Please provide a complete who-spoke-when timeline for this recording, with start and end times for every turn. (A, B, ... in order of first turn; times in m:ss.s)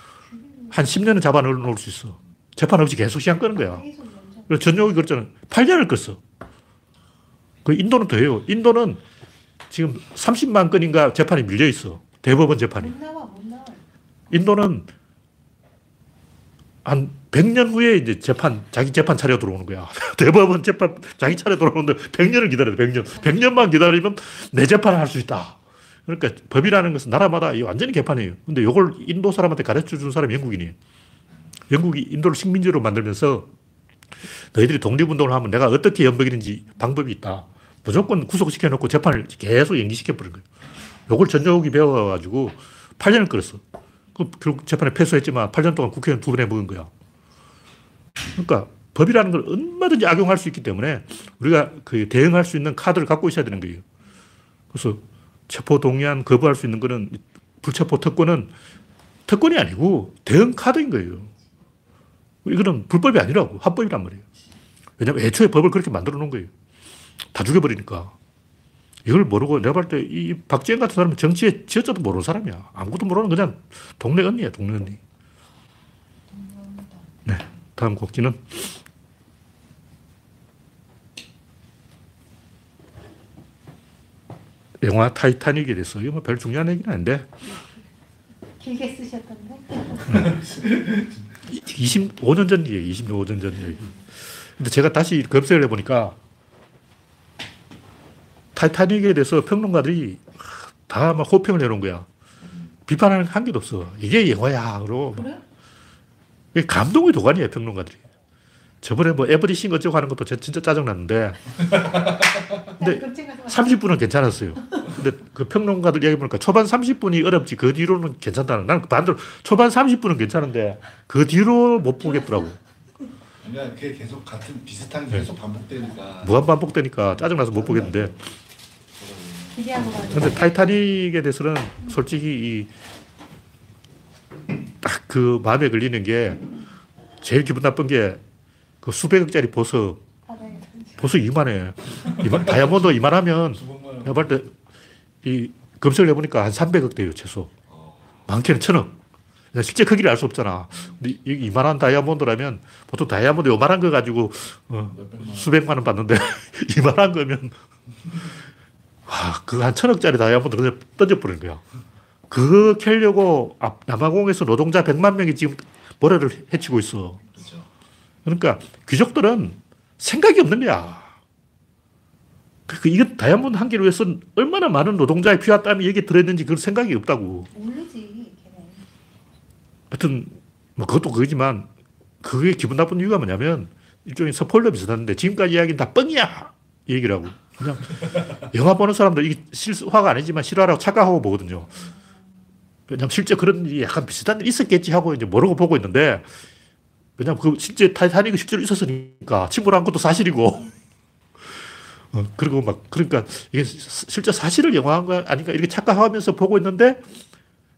0:00.3-0:00.7 A
0:00.7-0:03.8 B
0:03.7-0:04.8 A
0:04.5-0:06.2 B
0:07.6-0:09.0 B
0:09.7-0:13.0 B
0:12.8-0:13.8 A
0:14.3-0:14.9 B
0:16.8-0:30.8 B
0:31.7-0:33.5 B
0:34.5-0:40.5 B
0:41.1-0:43.6 B
0:44.2-0:46.9 B
0:48.4-0:53.8 B
0:54.7-0:58.5 B
0:59.3-1:01.3 B
1:02.4-1:04.3 B
1:05.0-1:06.5 B
1:07.3-1:08.1 B
1:09.0-1:15.0 B
1:16.4-1:17.0 A
1:17.3-1:18.7 B
1:24.8-1:27.3 B
1:28.6-1:30.4 A
1:30.1-1:30.4 B
1:31.5-1:36.2 B
1:38.6-1:42.1 B
1:42.9-1:45.3 B
1:46.5-1:48.0 B
1:48.8-2:02.6 B
1:52.6-1:53.8 A
2:03.4-2:06.5 C
2:06.2-2:08.2 B
2:07.5-2:08.2 C
2:08.9-2:10.2 C
2:09.6-2:10.6 A
2:10.1-2:12.7 B
2:14.8-2:16.5 B
2:17.2-2:18.2 B
2:18.8-2:20.0 B
2:20.3-2:21.1 A
2:21.0-2:24.5 B
2:23.6-2:24.3 C
2:25.2-2:27.5 B
2:27.7-2:28.1 C
2:28.3-2:29.0 B
2:29.5-2:37.6 B
2:34.9-2:35.5 C
2:39.1-2:41.6 B
2:42.3-2:47.2 B
2:47.4-2:47.7 C
2:48.2-2:51.1 B
2:52.7-2:57.5 B
2:57.5-2:58.9 A
2:59.9-3:01.7 B
3:02.2-3:11.8 B
3:12.9-3:16.3 B
3:17.2-3:20.7 B
3:22.1-3:27.0 B